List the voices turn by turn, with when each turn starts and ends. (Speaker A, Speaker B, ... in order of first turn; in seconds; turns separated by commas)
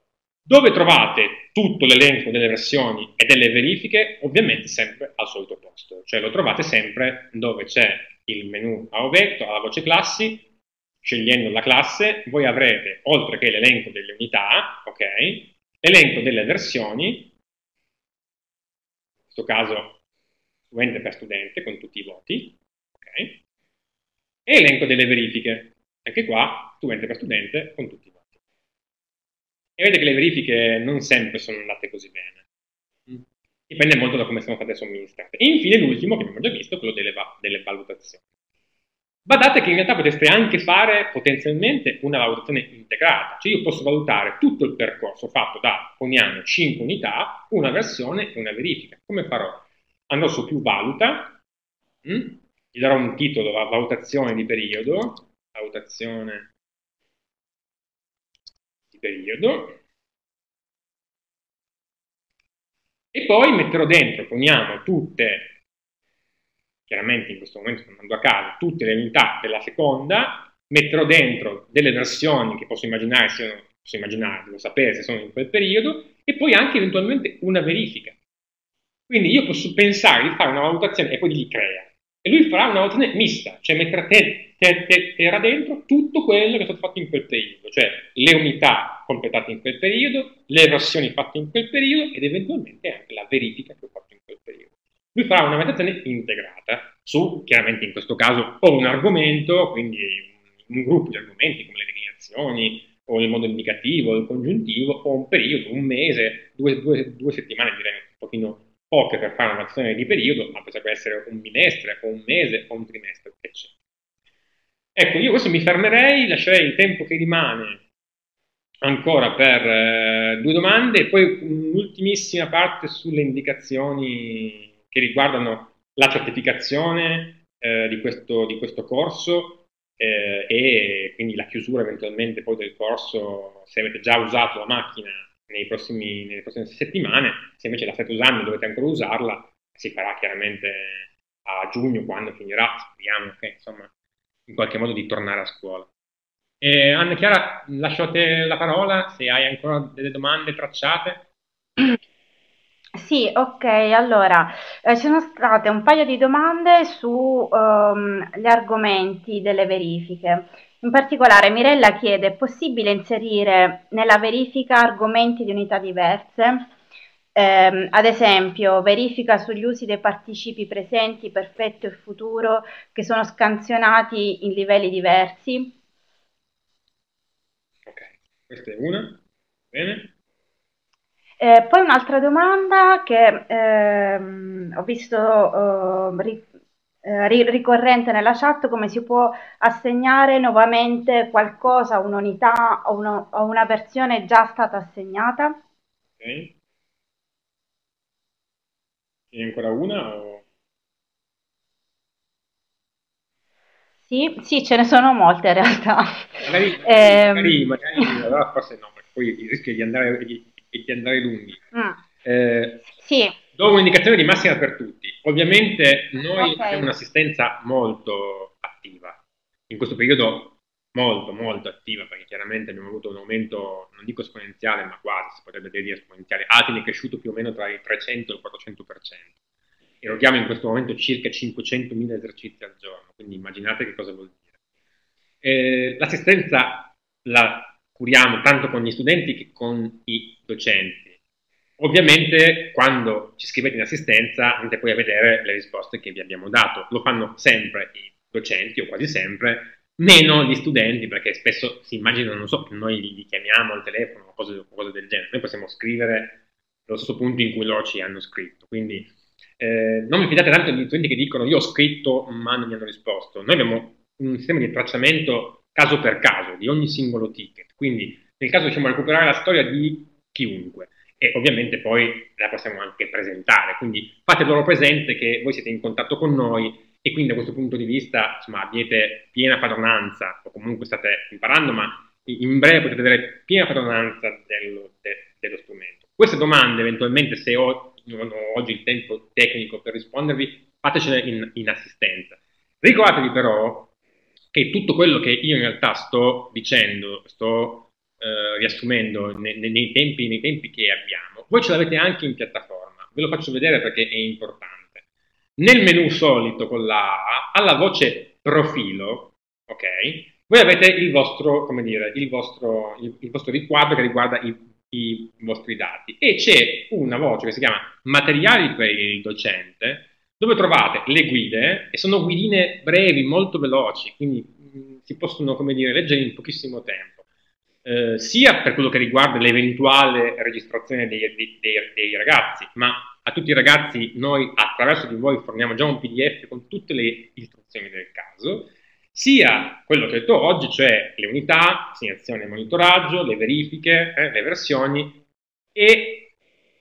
Speaker A: 0.5-10.5, Speaker A: 11.0-17.3, Speaker A: 19.3-20.0, Speaker A: 20.7-23.4, Speaker A: 24.4-28.2, Speaker A: 29.8-32.4, Speaker A: 33.1-38.2, Speaker A: 39.2-51.4, Speaker A: 52.0-56.5, Speaker A: 58.9-59.8, Speaker A: 63.1-65.5, Speaker A: 66.9-78.2, Speaker A: 79.1-113.7, Speaker A: 114.9-117.8, Speaker A: 118.8-143.9, Speaker A: 144.5-145.9, Speaker A: 146.6-151.3, Speaker B: 152.9-166.7, Speaker B: 167.3-175.8, Speaker A: 177.8-180.1, Speaker B: 181.4-186.5, Speaker B: 187.0-195.6, Speaker A: 196.2-196.5, Speaker A: 199.3-200.4, Speaker B: 204.1-208.1, Speaker A: 206.4-211.6, Speaker B: 211.7-212.0, Speaker A: 212.2-212.9, Speaker B: 212.9-213.3, Speaker A: 213.5-229.3, Speaker B: 216.3-216.9, Speaker A: 230.0-234.4, Speaker A: 235.4-241.2, Speaker A: 241.8-293.9, Speaker A: 294.5-305.0, Speaker A: 305.6-327.2, Speaker A: 327.8-345.2, Speaker A: 345.7-346.3